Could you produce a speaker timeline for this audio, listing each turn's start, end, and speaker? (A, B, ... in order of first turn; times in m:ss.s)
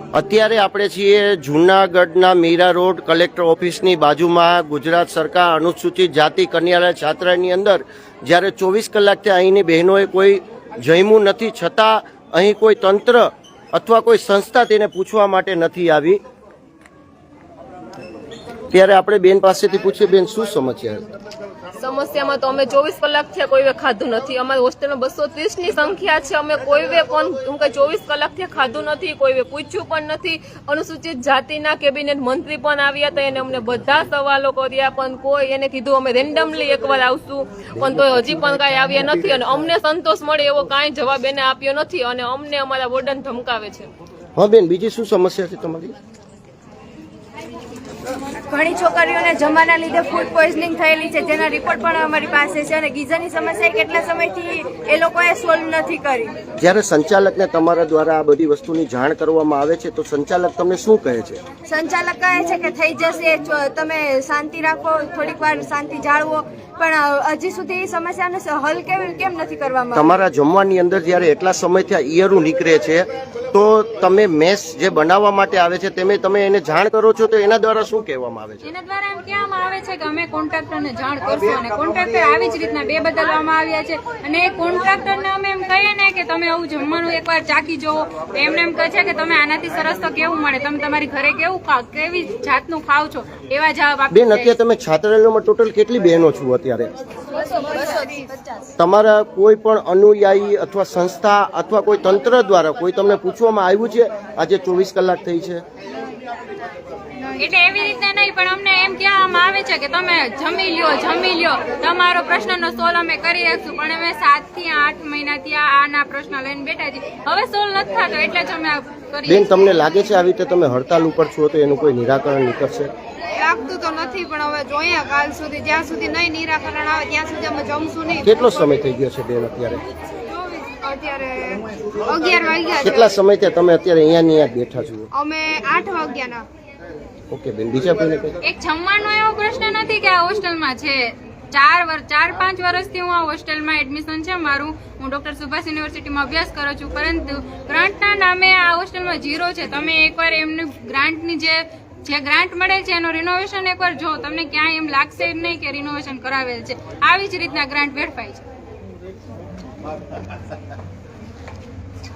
0:00.1-0:16.2 A
0:18.7-0:21.0 A
0:21.8-0:43.9 B
0:44.4-0:45.9 A
0:48.5-0:56.3 C
0:56.6-1:01.4 A
1:01.7-1:10.1 C
1:09.9-1:18.7 A
1:18.6-1:34.5 D
1:34.1-1:36.9 A
1:37.8-1:38.0 C
1:38.8-1:45.6 A
1:47.4-1:59.5 D
1:59.3-2:02.9 A
2:03.3-2:08.5 E
2:08.2-2:09.8 A
2:10.3-2:13.1 E
2:12.8-2:15.1 A
2:15.1-2:16.4 E
2:17.3-2:18.4 A
2:18.4-2:38.4 D